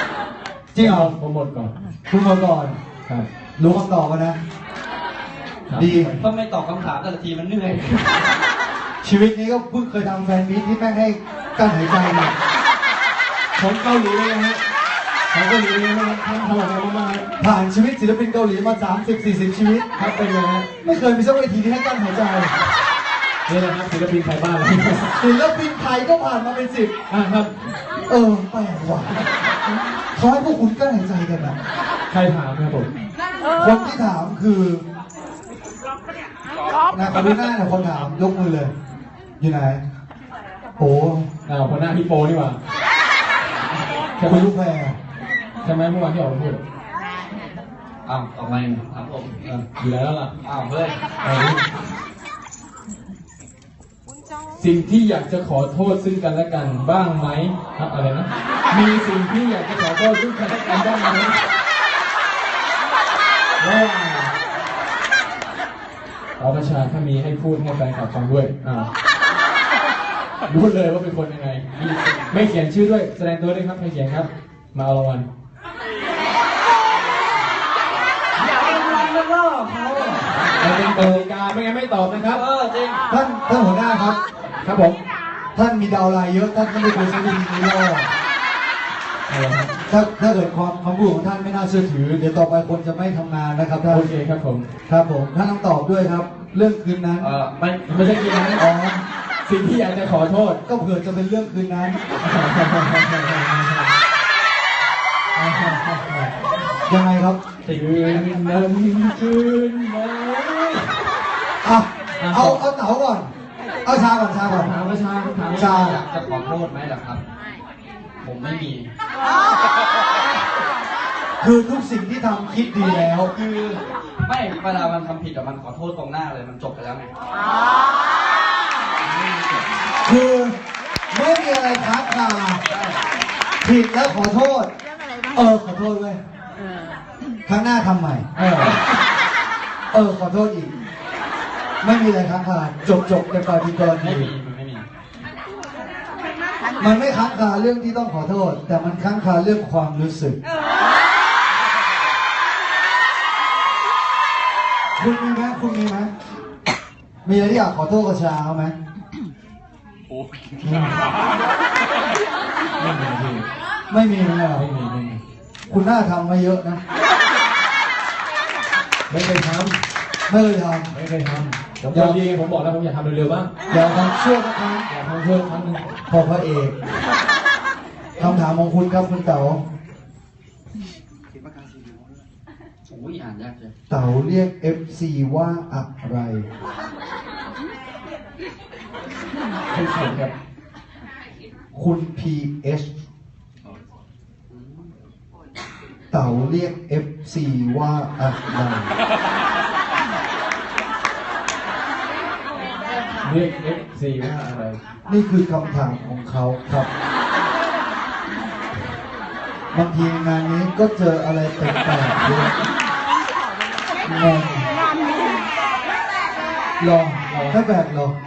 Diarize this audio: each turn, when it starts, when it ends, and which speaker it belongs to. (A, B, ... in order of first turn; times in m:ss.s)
0:00.7-0:01.2 A
0:00.8-0:01.7 B
0:02.1-0:02.8 A
0:03.6-0:04.4 A
0:05.7-0:06.3 B
0:05.7-0:06.1 A
0:06.2-0:08.2 C
0:09.0-0:12.4 A
0:13.6-0:14.6 B
0:15.3-0:17.3 B
0:17.4-0:19.9 A
0:20.0-0:20.7 B
0:20.8-0:22.5 A
0:23.5-0:25.2 B
0:25.2-0:26.9 A
0:27.1-0:27.5 B
0:28.1-0:29.2 A
0:30.1-0:31.6 A
0:32.1-0:32.9 B
0:33.6-0:34.8 A
0:36.9-0:38.7 A
0:39.4-0:39.8 A
0:40.8-0:41.3 A
0:41.4-0:42.6 B
0:44.2-0:44.5 B
0:44.2-0:45.0 A
0:45.6-0:46.6 B
0:48.1-0:49.4 C
0:48.4-0:48.8 B
0:49.4-0:50.3 B
0:50.4-0:51.0 C
0:51.2-0:51.6 B
0:54.6-1:01.4 B
1:03.6-1:04.4 B
1:06.4-1:08.9 B
1:10.5-1:11.7 B
1:11.7-1:12.5 C
1:12.3-1:15.3 B
1:18.4-1:20.6 C
1:20.4-1:22.4 B
1:20.9-1:21.3 A
1:22.2-1:23.0 C
1:23.1-1:24.2 A
1:24.6-1:25.0 B
1:25.6-1:28.1 A
1:29.3-1:29.7 B
1:29.9-1:34.1 A
1:33.9-1:34.7 B
1:34.9-1:37.3 A
1:37.2-1:38.2 C
1:37.9-1:38.6 B
1:38.6-1:39.0 A
1:39.5-1:40.6 B
1:40.7-1:42.0 A
1:42.2-1:43.9 B
1:45.4-1:46.3 B
1:46.9-1:47.4 A
1:47.7-1:48.3 C
1:47.7-1:50.9 B
1:51.6-1:53.3 A
1:52.2-1:52.6 B
1:53.8-1:54.8 A
1:54.5-1:55.8 B
1:55.5-1:57.2 C
1:55.5-1:56.0 A
1:58.2-1:58.9 C
2:01.4-2:03.3 A
2:02.8-2:07.1 C
2:09.0-2:09.6 C
2:10.0-2:10.6 A
2:11.1-2:12.6 A
2:12.7-2:13.0 C
2:13.6-2:14.7 A
2:15.3-2:16.2 A
2:17.5-2:18.3 A
2:18.4-2:18.8 B
2:18.6-2:18.9 C
2:19.9-2:20.7 A
2:21.8-2:24.3 A
2:24.0-2:24.9 C
2:26.8-2:30.4 A
2:35.0-2:36.1 A
2:37.2-2:38.8 A
2:40.6-2:41.0 A
2:42.8-2:43.5 B
2:43.9-2:44.7 A
2:44.6-2:45.2 B
2:45.7-2:46.8 A
2:49.1-2:49.8 B
2:50.3-2:51.0 A
2:50.9-2:53.5 B
2:51.9-2:52.2 A
2:53.7-2:54.9 A
2:54.9-2:55.8 B
2:56.1-2:56.8 A
2:58.2-2:59.6 A
3:01.7-3:02.0 A
3:02.9-3:03.7 C
3:03.9-3:06.4 A
3:09.7-3:10.3 B
3:11.7-3:12.9 A
3:14.5-3:14.9 C
3:16.1-3:18.9 A
3:23.2-3:24.8 B
3:25.1-3:26.9 A
3:29.7-3:32.6 A
3:34.0-3:34.7 A
3:36.8-3:38.2 A
3:37.3-3:37.6 B